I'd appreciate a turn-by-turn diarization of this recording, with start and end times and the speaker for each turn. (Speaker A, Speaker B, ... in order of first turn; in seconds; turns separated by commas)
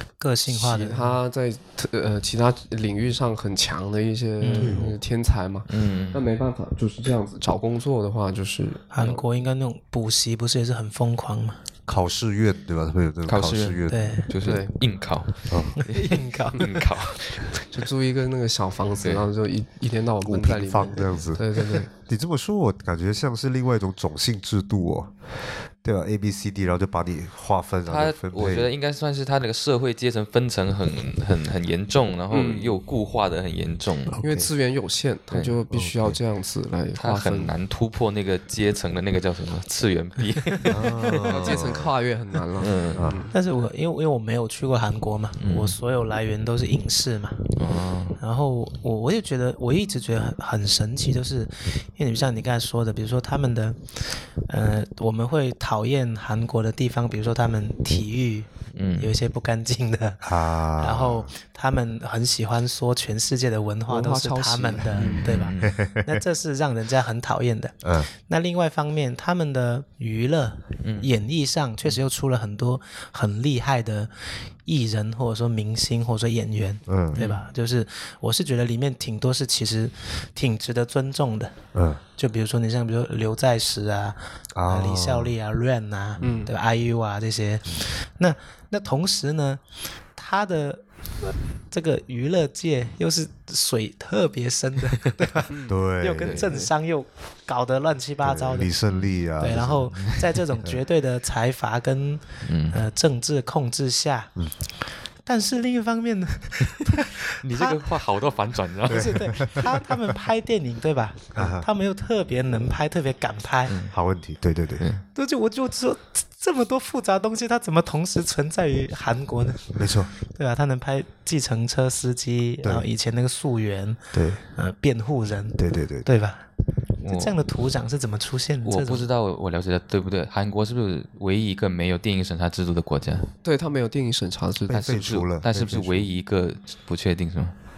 Speaker A: 0.2-1.2, Speaker B: 0.5-9.2, Speaker A: 4.4-4.8, Speaker C: 4.6-5.0, Speaker D: 5.7-6.2, Speaker A: 8.9-11.6, Speaker C: 11.9-14.2, Speaker D: 13.3-17.4, Speaker A: 13.9-14.3, Speaker B: 14.4-14.7, Speaker C: 15.5-15.8, Speaker A: 15.8-16.6, Speaker B: 17.5-21.9, Speaker C: 20.2-25.2, Speaker C: 25.8-28.7, Speaker D: 27.9-34.2, Speaker B: 32.3-32.8, Speaker C: 34.1-34.5, Speaker B: 34.2-37.5, Speaker D: 35.3-35.6, Speaker C: 35.7-36.2, Speaker D: 37.0-40.9, Speaker C: 40.7-41.9, Speaker A: 40.7-41.3, Speaker B: 41.3-43.3, Speaker D: 42.6-43.1, Speaker C: 42.9-43.2, Speaker A: 43.3-47.5, Speaker D: 45.4-45.8, Speaker D: 47.6-48.2, Speaker A: 48.2-74.1, Speaker D: 58.7-59.1, Speaker C: 60.2-61.3, Speaker B: 63.9-65.3, Speaker D: 65.0-65.8, Speaker C: 65.6-66.2, Speaker C: 67.8-68.1, Speaker D: 70.8-71.1, Speaker A: 74.7-81.6, Speaker C: 76.9-77.2, Speaker C: 81.7-82.0, Speaker A: 82.2-89.6, Speaker C: 84.5-85.3, Speaker B: 86.2-86.5, Speaker A: 90.2-98.7, Speaker C: 95.7-96.6, Speaker C: 98.2-100.8, Speaker A: 99.4-104.3, Speaker D: 102.5-102.8, Speaker A: 105.3-107.8, Speaker D: 107.4-109.5, Speaker C: 108.9-109.7, Speaker A: 108.9-113.7, Speaker C: 111.3-111.7, Speaker D: 113.7-113.9, Speaker C: 113.9-114.9, Speaker A: 115.2-124.0, Speaker C: 119.8-120.1, Speaker C: 124.1-124.4, Speaker A: 124.5-129.1, Speaker C: 125.6-126.1, Speaker D: 127.0-127.4, Speaker D: 128.7-133.3, Speaker B: 133.4-134.9, Speaker D: 134.7-137.5, Speaker C: 134.7-136.1